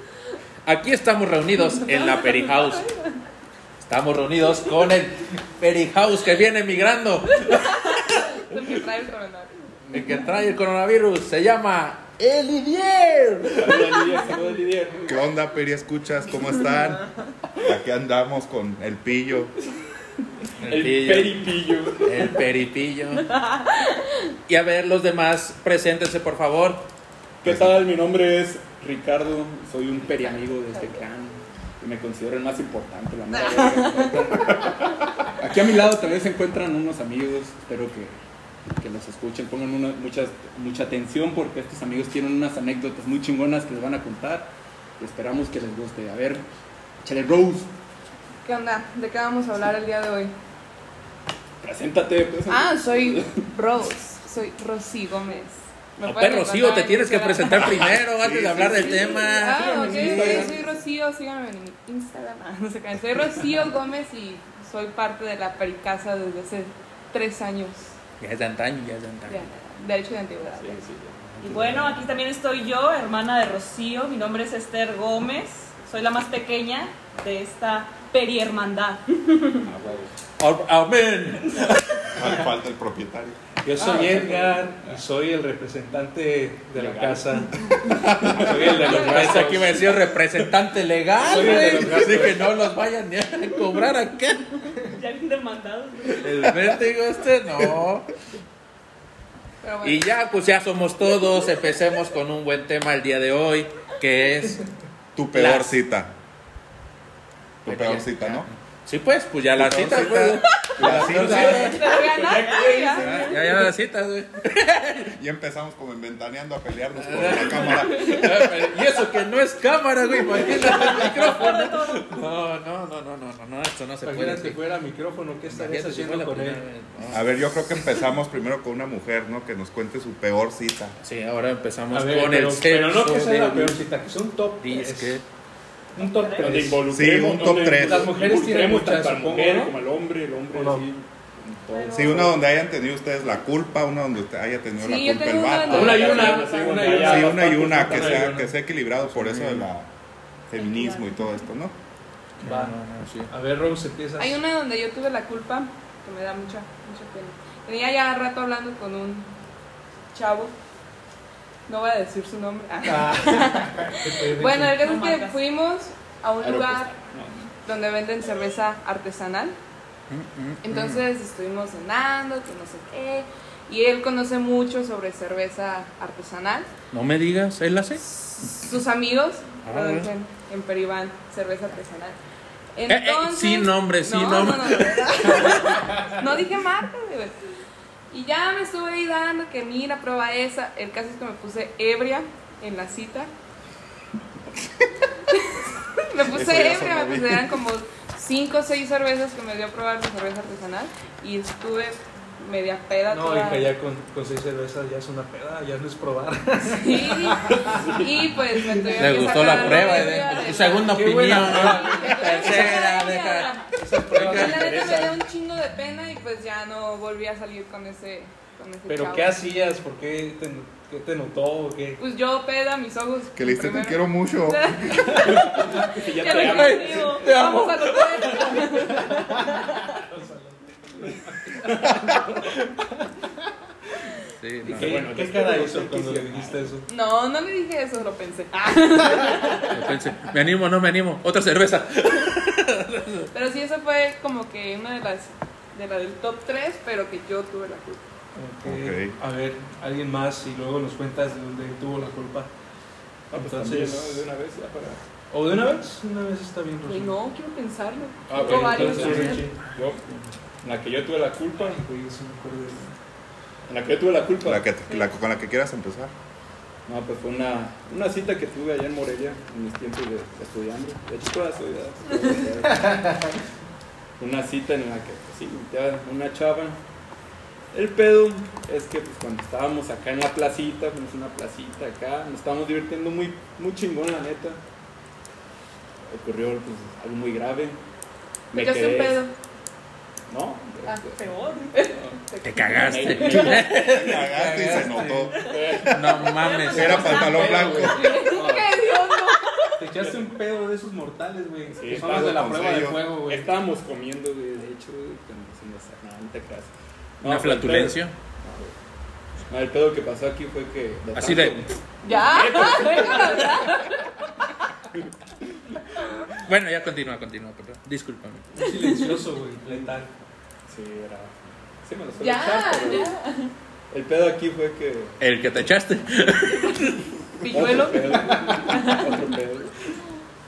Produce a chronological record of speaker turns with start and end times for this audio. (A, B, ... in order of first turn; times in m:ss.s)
0:00.6-0:02.9 A
0:02.0-0:02.7 B
0:03.8-0:08.4 A
0:07.5-0:09.6 B
0:09.9-0:14.0 A
0:13.6-0:15.2 C
0:15.1-0:19.5 D
0:20.6-0:21.4 A
0:20.6-0:22.3 C
0:22.0-0:23.3 A
0:23.3-0:24.0 B
0:24.5-0:26.9 A
0:27.4-0:38.2 C
0:33.3-0:34.6 B
0:38.8-0:46.5 C
0:47.0-0:47.7 C
0:48.4-0:50.3 B
0:51.6-0:53.4 C
0:52.5-0:58.0 B
0:56.0-1:00.6 A
0:57.9-0:59.0 D
0:58.7-1:07.9 B
0:59.0-1:00.8 C
1:08.2-1:09.5 A
1:09.3-1:10.8 B
1:10.5-1:11.9 C
1:11.4-1:19.6 E
1:19.6-1:20.1 C
1:20.4-1:22.4 A
1:22.1-1:23.4 D
1:23.6-1:30.0 F
1:23.8-1:25.0 C
1:26.8-1:27.5 C
1:27.8-1:34.7 A
1:28.4-1:28.8 C
1:31.2-1:32.4 F
1:31.3-1:32.3 C
1:34.8-1:36.3 E
1:36.2-1:36.8 F
1:36.2-1:38.1 A
1:39.6-1:40.1 B
1:39.8-1:44.6 A
1:45.2-1:46.2 D
1:45.3-1:45.8 A
1:47.6-1:48.5 D
1:47.7-1:51.9 A
1:49.6-1:51.5 D
1:50.8-1:53.3 C
1:51.3-1:53.4 B
1:51.5-1:52.8 E
1:52.9-1:55.2 A
1:55.2-1:58.5 D
1:57.0-2:04.6 A
2:00.2-2:02.3 E
2:04.0-2:06.6 F
2:05.5-2:08.0 A
2:07.1-2:11.0 D
2:11.0-2:13.8 A
2:11.9-2:15.2 F
2:14.6-2:15.2 A
2:16.0-2:16.8 F
2:16.0-2:16.6 E
2:16.4-2:22.4 C
2:16.9-2:18.1 D
2:17.4-2:19.8 F
2:20.5-2:20.9 F
2:21.7-2:22.2 E
2:21.9-2:26.0 D
2:24.8-2:26.5 B
2:25.7-2:28.3 C
2:25.7-2:28.5 F
2:26.9-2:29.9 D
2:29.0-2:29.7 A
2:30.5-2:31.7 D
2:30.6-2:31.2 E
2:32.4-2:33.3 A
2:32.4-2:32.8 F
2:33.3-2:34.4 F
2:34.2-2:39.3 B
2:40.1-2:40.5 B
2:41.7-2:47.0 B
2:42.8-2:45.0 F
2:44.8-2:45.4 E
2:46.4-2:47.5 C
2:47.7-2:49.6 B
2:50.1-2:51.0 A
2:50.6-2:56.7 B
2:56.9-2:58.6 A
2:58.1-3:02.2 B
2:59.6-3:00.1 A
3:02.8-3:07.3 B
3:02.9-3:06.0 A
3:08.1-3:13.3 B
3:15.3-3:23.7 B
3:16.3-3:17.5 C
3:23.1-3:30.2 F
3:26.7-3:39.4 B
3:27.7-3:28.0 C
3:28.9-3:35.0 A
3:30.8-3:32.8 F
3:32.4-3:33.2 E
3:33.8-3:35.2 F
3:38.9-3:42.0 F
3:42.0-3:49.8 B
3:43.4-3:45.2 D
3:45.2-3:47.3 C
3:46.2-3:48.7 A
3:48.9-3:51.7 F
3:54.4-3:55.0 A
3:54.6-3:56.9 F
3:54.7-3:56.8 C
3:56.9-3:59.9 B
3:59.7-4:03.3 A
4:03.3-4:08.0 B
4:08.4-4:12.5 F
4:08.6-4:09.2 D
4:13.3-4:15.0 C
4:13.3-4:14.3 F
4:15.3-4:17.2 F
4:16.9-4:19.4 B
4:18.3-4:19.5 A
4:18.4-4:20.0 C
4:18.5-4:19.6 F
4:20.6-4:21.8 C
4:21.7-4:22.9 F
4:23.7-4:24.7 C
4:24.4-4:26.1 D
4:26.9-4:33.1 C
4:32.9-4:33.2 F
4:34.2-4:36.8 C
4:37.7-4:44.6 C
4:46.1-4:47.8 C
4:48.5-4:49.2 C
4:48.5-4:49.3 B
4:50.3-4:51.2 C
4:51.2-4:51.8 E
4:51.7-4:53.6 B
4:52.4-4:55.2 A
4:52.7-4:54.2 C
4:53.8-4:56.1 D
4:54.6-4:55.4 F
4:55.4-4:58.7 C
4:55.8-4:57.4 A
4:56.3-4:57.5 E
4:56.4-4:59.7 B
4:56.6-4:58.1 D
4:57.6-4:58.7 F
4:59.8-5:03.5 F
5:01.7-5:02.5 C
5:02.1-5:03.1 D
5:03.2-5:08.7 C
5:07.2-5:08.1 A
5:09.5-5:13.8 C
5:11.2-5:11.6 A
5:12.0-5:14.1 B
5:16.4-5:18.7 A
5:18.6-5:20.1 F
5:19.7-5:20.0 C
5:20.7-5:23.2 C
5:22.2-5:23.5 B
5:23.9-5:25.2 C
5:25.2-5:27.1 A
5:27.4-5:29.2 B
5:27.5-5:29.8 C